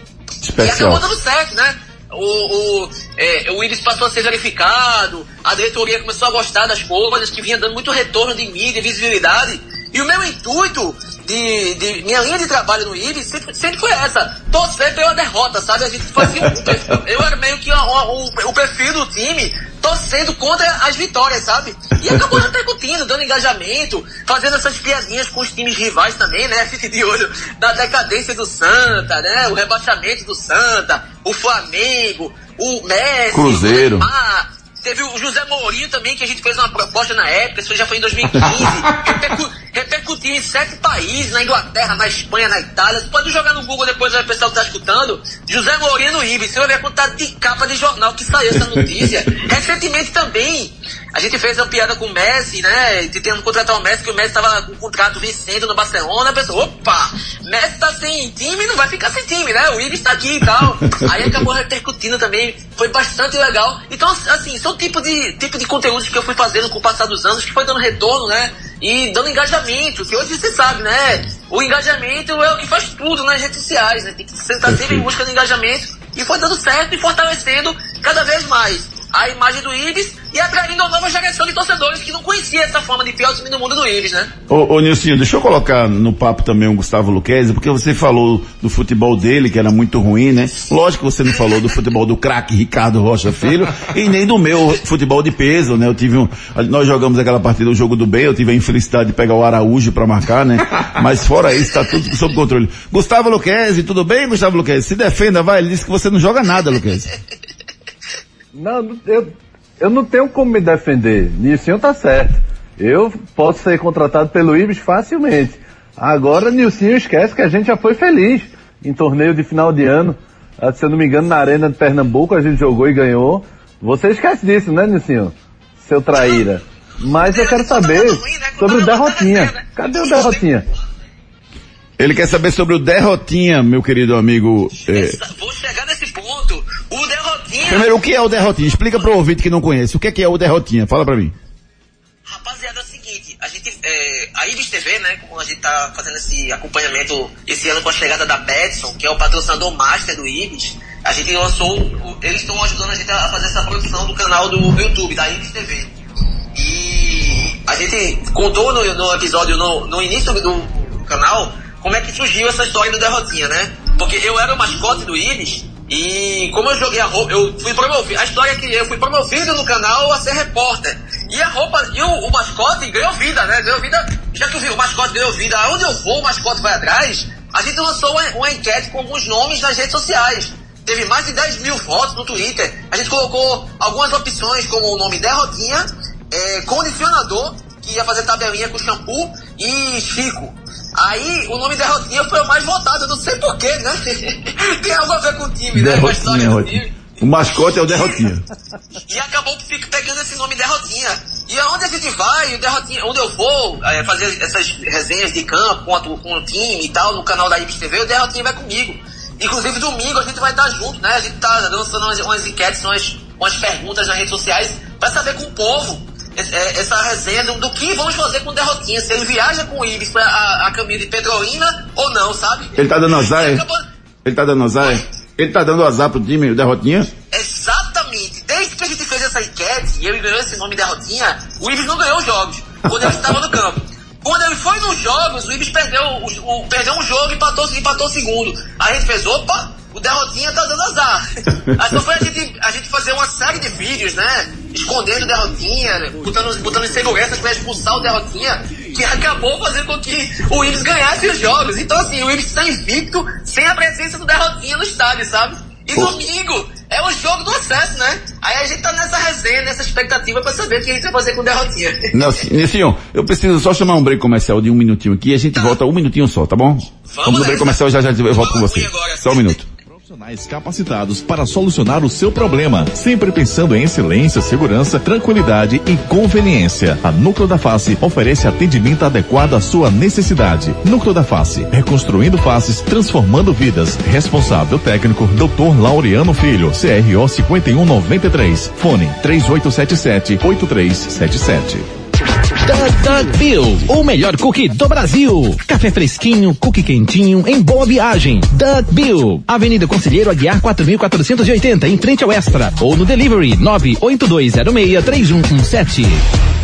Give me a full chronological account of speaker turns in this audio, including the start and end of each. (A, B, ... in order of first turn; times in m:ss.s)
0:00.4-0:01.0 A
0:00.6-1:24.3 B
0:16.5-0:16.8 A
0:22.1-0:22.4 A
0:33.3-0:34.1 A
1:00.6-1:01.4 A
1:14.6-1:15.1 A
1:24.5-1:47.1 A
1:48.5-2:10.6 C
2:06.1-2:06.4 B
2:07.2-2:10.5 B
2:12.0-2:15.2 A
2:14.8-2:18.0 B
2:17.6-2:21.3 A
2:22.2-2:35.9 B
2:36.5-3:17.0 B
3:15.7-3:18.4 A
3:17.8-3:18.2 B
3:19.0-3:43.8 B
3:42.8-3:43.6 A
3:44.2-3:47.1 A
3:47.3-4:01.2 B
4:01.7-4:22.1 B
4:22.1-4:29.7 A
4:27.1-4:29.6 B
4:29.9-4:51.9 D
4:52.6-5:06.2 E